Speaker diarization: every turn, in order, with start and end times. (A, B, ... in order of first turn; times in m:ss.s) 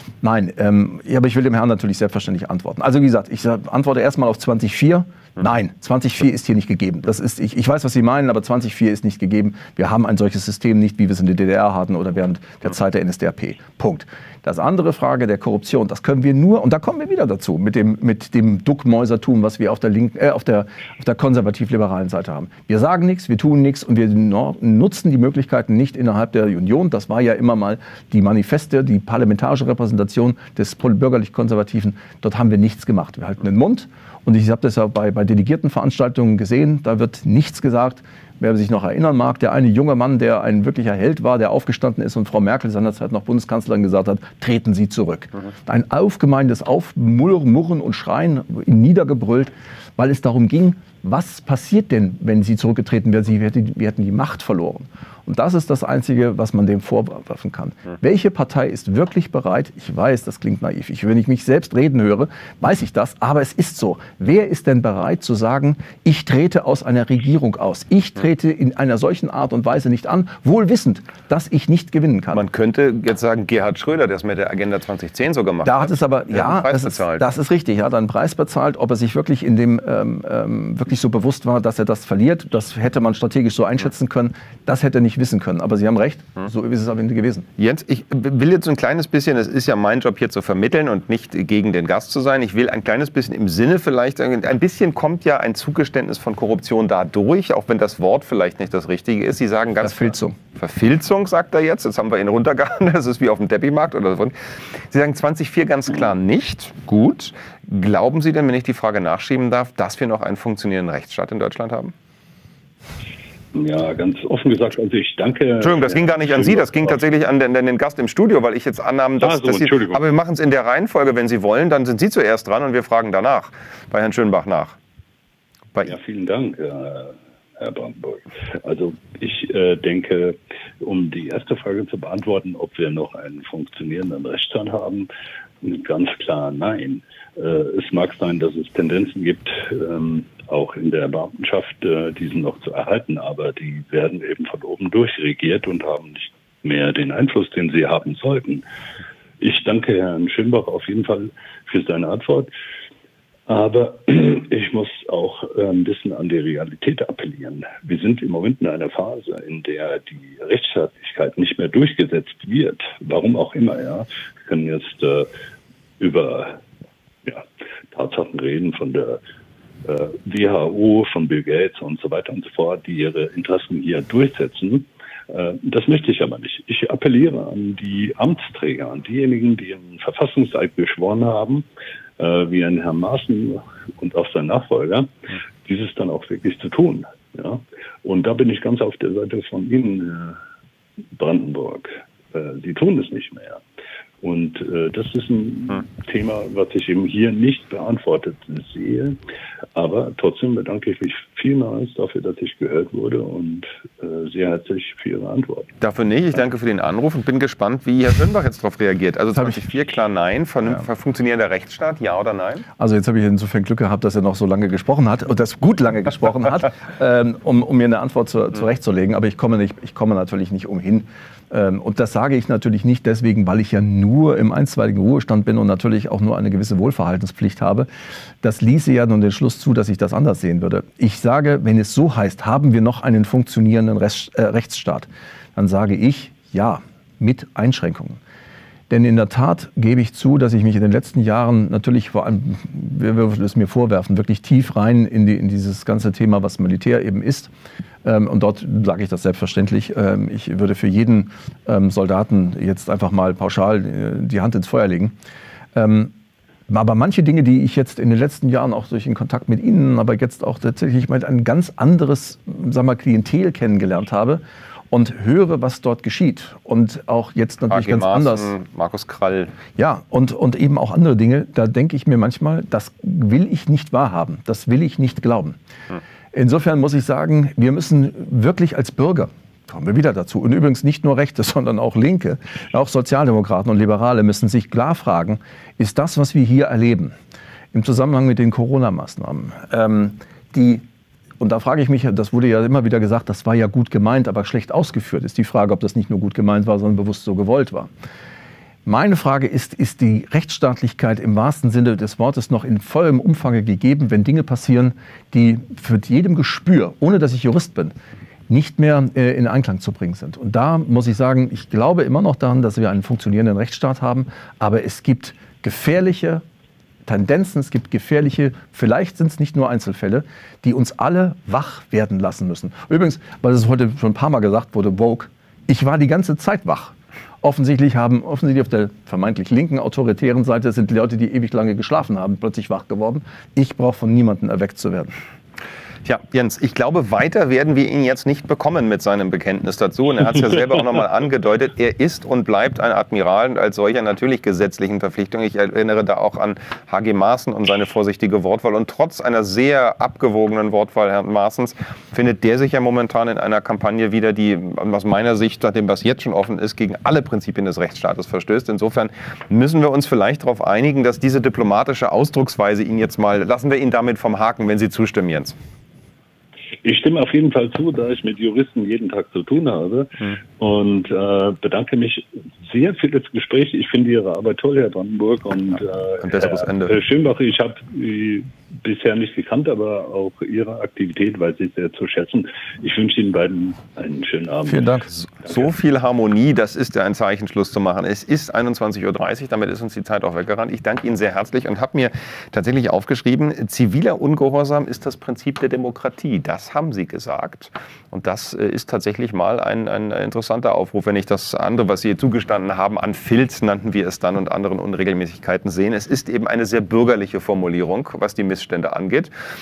0:00.2-1:12.4 A
1:12.3-1:17.2 B
1:15.6-1:27.5 A
1:27.6-1:44.4 B
1:39.8-1:40.4 A
1:44.9-1:51.9 B
1:53.6-1:57.1 C
1:55.6-2:04.8 B
1:59.2-2:00.0 C
2:05.8-2:15.1 C
2:15.6-2:28.6 C
2:29.4-2:32.5 C
2:33.5-2:45.3 C
2:46.0-2:46.6 C
2:47.3-2:49.2 C
2:49.8-3:01.7 C
3:02.2-3:10.4 C
3:11.2-3:13.6 C
3:14.2-3:19.2 C
3:19.8-3:25.7 C
3:25.8-3:32.6 B
3:29.4-3:29.6 A
3:32.8-3:47.9 A
3:48.4-3:58.2 A
3:58.9-4:07.5 A
4:08.0-4:15.1 A
4:15.7-4:16.1 A
4:16.7-4:28.5 A
4:27.7-4:29.5 B
4:29.8-4:35.6 A
4:36.3-4:47.2 A
4:47.7-4:50.8 A
4:51.4-4:57.9 A
4:58.8-5:08.0 A
5:08.5-5:16.4 A
5:17.1-5:35.2 A
5:36.0-6:05.6 B
6:06.8-6:24.9 C
6:16.2-6:17.0 B
6:24.7-6:25.1 A
6:25.1-6:49.3 B
6:25.4-6:25.7 C